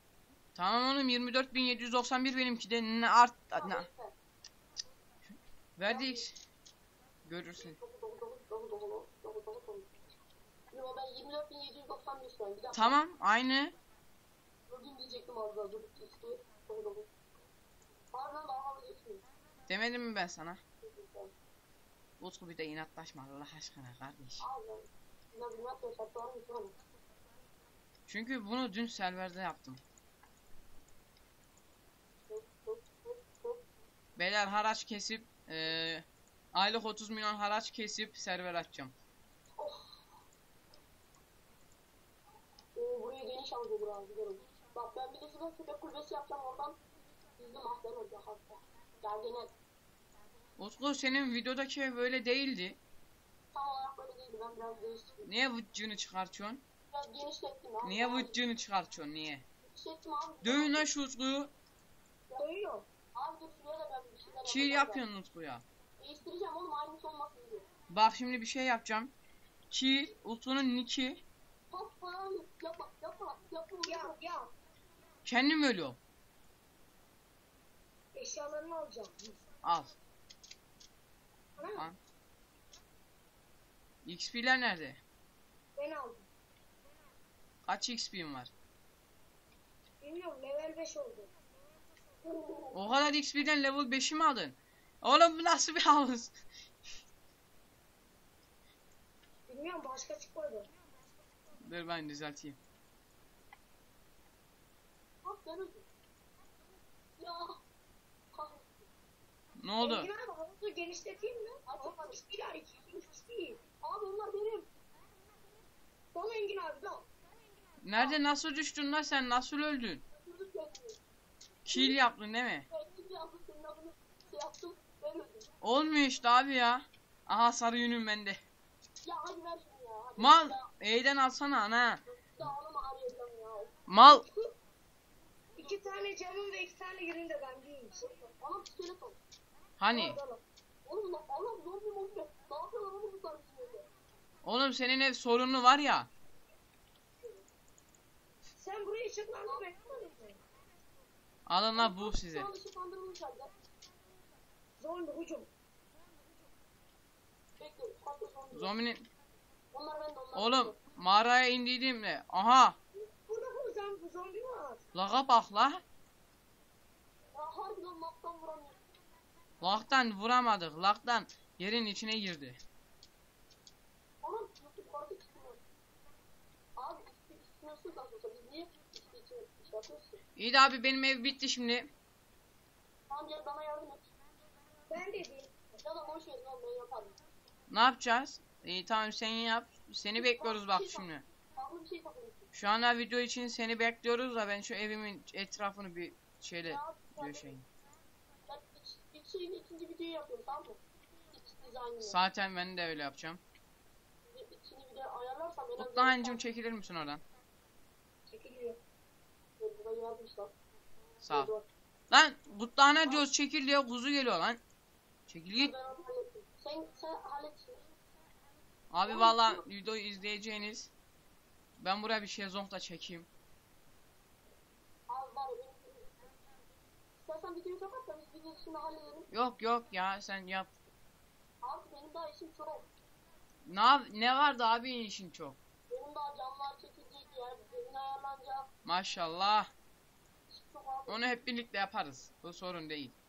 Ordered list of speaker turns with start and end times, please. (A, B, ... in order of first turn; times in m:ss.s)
0:00.5-0:03.9 A
0:03.6-0:04.1 B
0:05.8-0:06.3 A
0:05.9-0:06.2 B
0:07.2-0:07.8 A
0:07.6-0:09.9 B
0:10.7-0:13.0 B
0:12.7-0:13.8 A
0:14.7-0:17.1 B
0:18.1-0:19.2 B
0:19.7-0:20.6 A
0:20.8-0:21.3 B
0:22.2-0:24.4 A
0:24.4-0:26.8 B
0:28.1-0:29.8 A
0:32.3-0:33.6 B
0:34.2-0:38.9 A
0:39.6-0:40.0 B
0:42.8-0:46.8 B
0:47.4-0:49.5 B
0:50.6-0:52.8 A
0:53.5-0:55.3 B
0:55.2-0:56.6 A
0:56.9-0:58.4 B
0:57.8-0:59.4 A
0:59.6-1:00.9 B
1:00.4-1:01.5 A
1:02.4-1:02.9 C
1:03.1-1:05.0 B
1:04.5-1:05.6 A
1:06.0-1:07.7 B
1:07.9-1:09.1 A
1:09.7-1:11.2 A
1:11.7-1:14.2 B
1:13.8-1:14.5 C
1:15.2-1:16.0 A
1:18.1-1:19.4 C
1:19.6-1:20.0 A
1:21.6-1:21.9 C
1:24.0-1:25.0 A
1:25.8-1:26.3 C
1:27.7-1:28.5 A
1:30.0-1:31.3 C
1:32.2-1:32.8 B
1:32.7-1:36.3 A
1:39.5-1:40.7 C
1:41.6-1:42.6 A
1:45.2-1:45.8 B
1:47.2-1:47.6 B
1:48.3-1:48.9 B
1:49.6-1:50.1 A
1:49.8-1:53.6 C
1:51.7-1:52.2 B
1:53.8-1:54.7 B
1:56.1-1:57.1 C
1:57.8-2:00.0 A
2:00.1-2:01.0 B
2:01.6-2:02.7 A
2:01.7-2:02.0 B
2:02.7-2:05.5 B
2:05.6-2:08.4 A
2:09.0-2:10.6 B
2:10.2-2:12.0 A
2:12.1-2:13.8 B
2:13.9-2:14.2 A
2:14.0-2:14.5 C
2:15.6-2:18.3 C
2:18.4-2:19.2 B
2:19.8-2:20.2 A
2:19.9-2:20.4 C
2:20.8-2:23.9 B
2:24.4-2:26.1 A
2:28.6-2:30.4 C
2:31.5-2:32.5 A
2:31.7-2:33.5 B
2:34.8-2:35.5 C
2:37.6-2:38.7 B
2:38.5-2:39.1 A
2:39.7-2:40.8 B
2:40.3-2:42.8 A
2:42.9-2:44.8 C
2:44.9-2:45.8 A
2:47.3-2:48.8 B
2:49.6-2:52.6 A
2:54.2-2:55.6 B
2:56.8-3:00.2 B
3:00.4-3:01.9 A
3:03.1-3:04.1 B
3:04.9-3:05.6 C
3:05.8-3:07.2 B
3:07.7-3:11.2 A
3:10.2-3:12.5 B
3:12.5-3:17.6 A
3:16.6-3:17.5 B
3:18.5-3:20.8 B
3:21.3-3:22.2 B
3:22.0-3:23.4 A
3:24.3-3:26.4 B
3:25.8-3:27.2 A
3:28.3-3:28.8 C
3:29.6-3:30.5 B
3:31.2-3:31.5 A
3:31.3-3:31.6 B
3:32.1-3:34.6 A
3:35.3-3:35.7 A
3:35.6-3:37.8 B
3:38.9-3:40.9 A
3:39.1-3:39.6 B
3:41.8-3:43.3 A
3:45.1-3:46.3 B
3:47.2-3:49.3 B
3:49.3-3:50.7 A
3:51.6-3:52.9 B
3:53.7-3:55.6 A
3:55.9-3:58.7 B
3:58.8-3:59.7 A
4:00.5-4:01.3 B
4:01.1-4:03.1 A